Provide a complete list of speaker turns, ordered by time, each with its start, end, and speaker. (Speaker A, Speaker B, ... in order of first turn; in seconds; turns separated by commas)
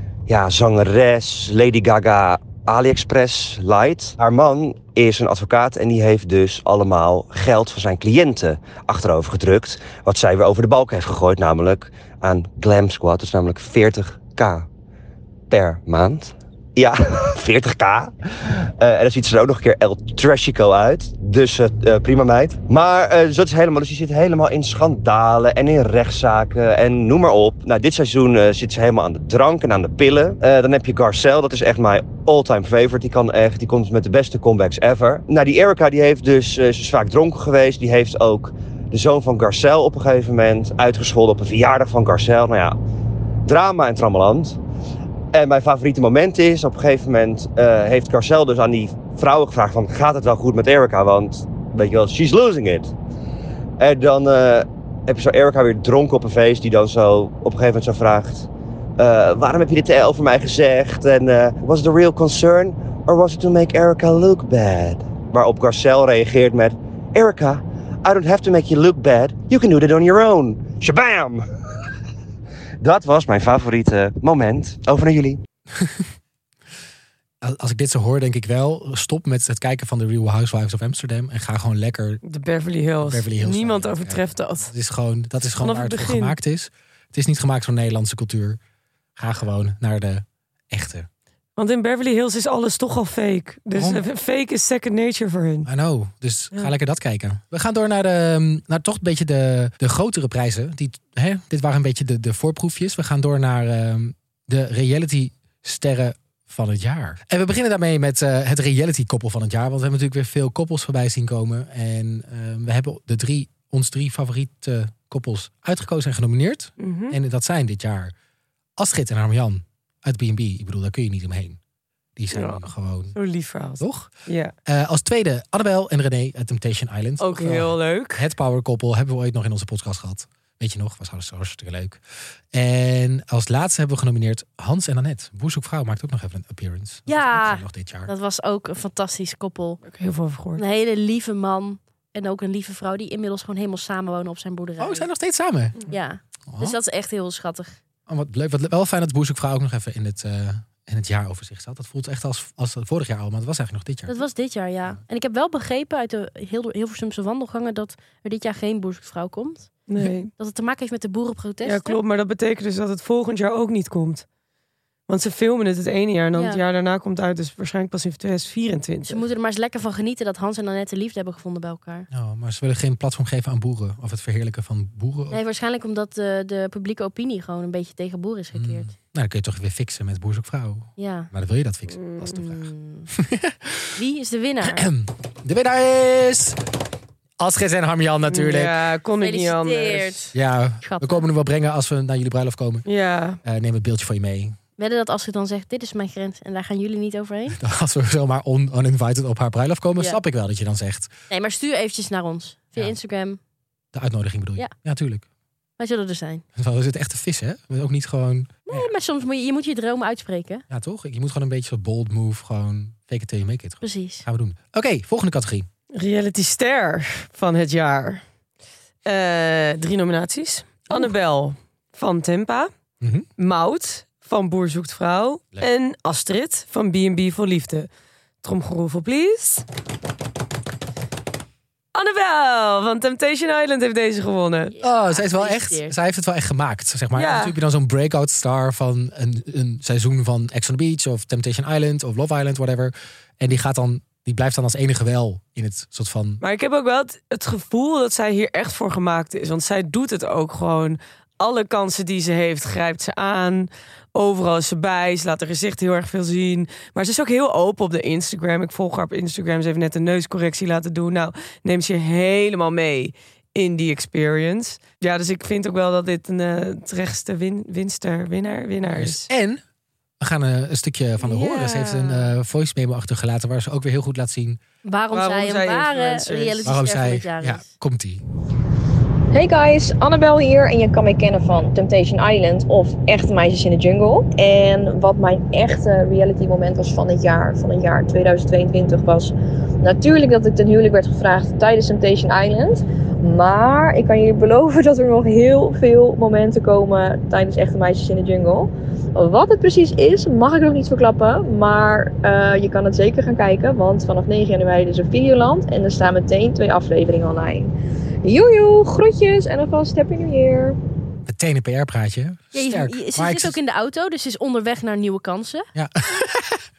Speaker A: 0.3-14.7, Speaker A: 15.5-42.8, Speaker A: 43.5-44.6, Speaker A: 45.3-52.9, Speaker A: 53.8-71.4, Speaker A: 72.8-75.4, Speaker B: 75.7-76.1, Speaker B: 77.4-82.2, Speaker C: 82.2-84.7, Speaker B: 83.0-88.6, Speaker C: 85.6-86.3, Speaker B: 89.2-91.1, Speaker C: 91.6-95.7, Speaker B: 93.7-94.0, Speaker B: 95.6-118.1, Speaker C: 116.8-117.2, Speaker B: 118.8-121.6, Speaker B: 122.2-123.2, Speaker C: 122.3-124.5, Speaker B: 123.8-124.1, Speaker B: 124.7-132.0, Speaker C: 127.2-128.3, Speaker B: 132.5-138.1, Speaker D: 137.1-139.8, Speaker C: 139.8-140.6, Speaker D: 140.6-145.1, Speaker B: 144.8-145.8, Speaker D: 145.9-147.8, Speaker B: 146.5-146.8, Speaker B: 148.1-154.2, Speaker D: 154.1-159.7, Speaker C: 159.9-160.3, Speaker D: 160.4-162.0, Speaker C: 161.6-164.2, Speaker C: 165.1-169.2, Speaker D: 166.3-166.6, Speaker D: 169.1-172.1, Speaker B: 172.1-175.4, Speaker D: 175.3-178.9, Speaker B: 178.5-184.0, Speaker D: 181.0-181.3, Speaker C: 182.0-182.2, Speaker D: 182.3-183.1, Speaker D: 183.9-184.9, Speaker B: 184.6-186.6, Speaker B: 187.4-188.8, Speaker C: 188.3-190.2, Speaker D: 189.2-191.2, Speaker B: 190.3-192.8, Speaker C: 192.8-193.4, Speaker B: 193.4-194.6, Speaker D: 194.8-197.6, Speaker B: 197.5-201.1, Speaker D: 201.3-203.4, Speaker B: 203.9-205.2, Speaker D: 205.8-206.4, Speaker B: 206.6-208.9, Speaker D: 208.7-210.6, Speaker B: 210.7-215.7, Speaker D: 213.8-214.2, Speaker C: 215.9-218.2, Speaker C: 219.0-222.7, Speaker B: 223.0-223.3, Speaker C: 223.4-227.9, Speaker C: 228.4-229.6, Speaker C: 231.9-234.7, Speaker D: 234.8-235.9, Speaker B: 234.8-246.4, Speaker C: 237.1-237.6, Speaker C: 246.4-269.3, Speaker B: 268.9-269.6, Speaker B: 270.2-274.6, Speaker C: 271.2-272.3, Speaker D: 274.8-277.6, Speaker C: 275.1-276.7, Speaker B: 276.6-278.2, Speaker E: 279.3-307.7, Speaker E: 308.2-310.8, Speaker B: 311.2-313.6, Speaker D: 312.5-315.7, Speaker B: 315.7-316.7